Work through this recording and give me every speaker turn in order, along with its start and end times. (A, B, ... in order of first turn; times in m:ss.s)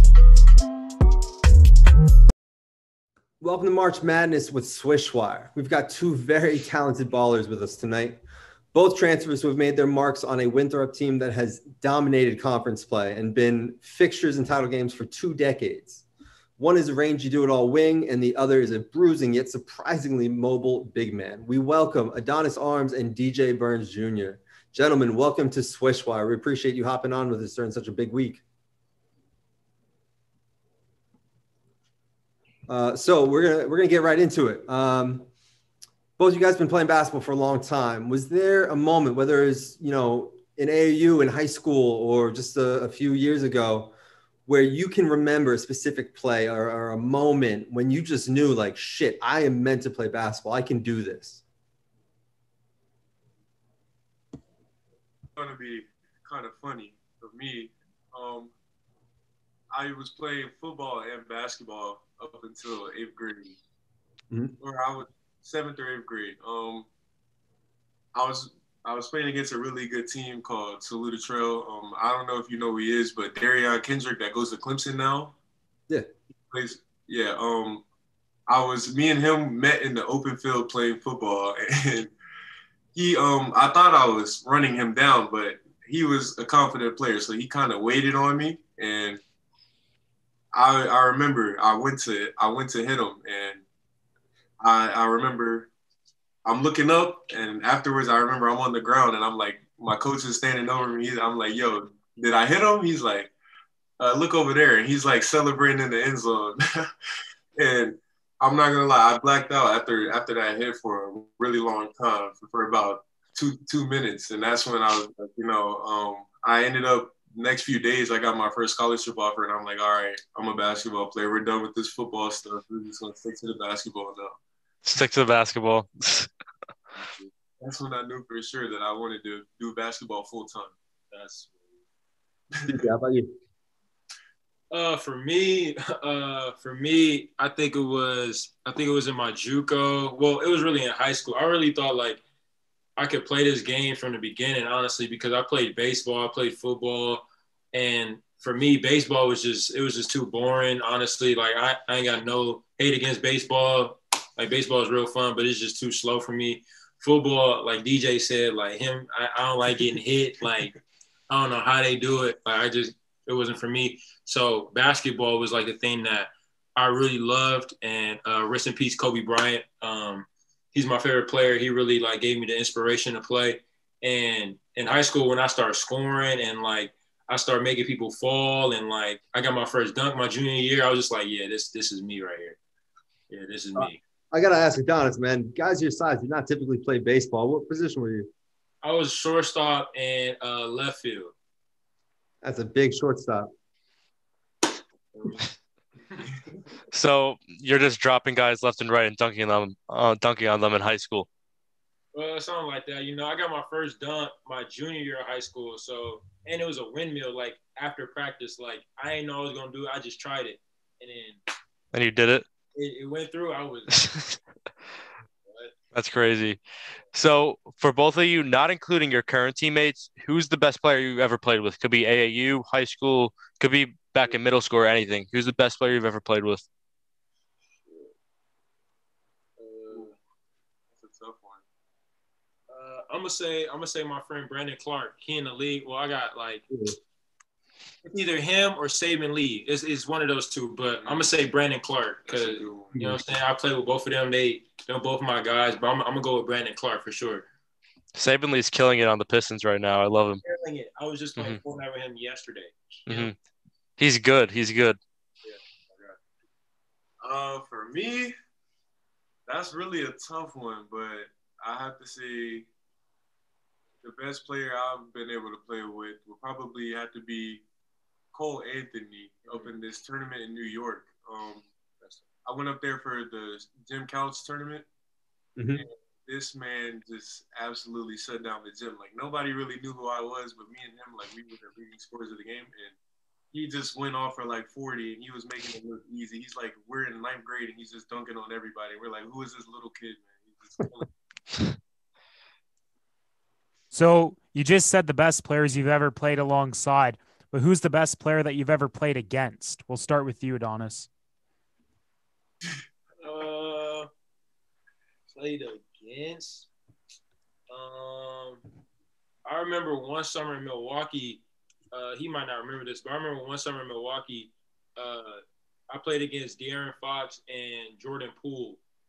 0:03.4-0:08.2 A
0:08.7-0:16.0 A
0:16.6-0:28.4 A
0:32.7-0:35.3 A
0:36.2-0:43.9 A
0:44.5-0:51.4 A
0:55.4-0:58.5 B
0:59.7-1:03.6 B
1:04.6-1:06.9 B
1:08.1-1:15.4 B
1:16.5-1:17.8 B
1:18.5-1:22.1 B
1:22.9-1:29.2 B
1:30.5-1:33.6 B
1:34.6-1:35.7 B
1:36.4-1:43.3 B
1:44.0-1:46.9 B
1:47.6-2:04.4 B
2:04.8-2:06.3 C
2:07.0-2:07.3 D
2:07.6-2:10.8 B
2:11.1-2:11.8 D
2:12.6-2:13.4 A
2:14.7-2:22.2 D
2:23.0-2:40.7 D
2:41.3-3:02.6 D
3:03.3-3:04.0 D
3:03.8-3:08.3 A
3:08.8-3:11.3 D
3:12.4-3:13.5 A
3:15.2-3:15.4 D
3:16.9-3:21.3 C
3:22.1-3:31.4 D
3:31.9-3:32.4 C
3:32.8-3:34.0 D
3:34.0-3:34.4 C
3:35.5-3:35.7 D
3:35.9-3:36.6 C
3:37.1-3:46.6 C
3:49.6-3:50.1 D
3:50.9-3:51.6 B
3:52.7-3:56.7 D
3:56.7-3:57.0 A
3:58.0-4:07.5 D
4:01.0-4:01.3 B
4:02.3-4:02.9 B
4:02.9-4:03.2 A
4:08.2-4:10.4 C
4:10.4-4:13.3 D
4:13.1-4:13.3 C
4:14.0-4:15.0 C
4:15.5-4:16.2 D
4:17.2-4:18.3 B
4:19.5-4:22.7 B
4:24.0-4:27.6 B
4:28.3-4:31.7 B
4:32.4-4:34.9 B
4:35.6-4:35.8 A
4:35.8-4:43.0 B
4:43.5-4:51.1 B
4:53.9-5:01.1 E
5:03.2-5:04.1 D
5:05.3-5:06.7 D
5:07.7-5:08.6 D
5:09.4-5:18.8 D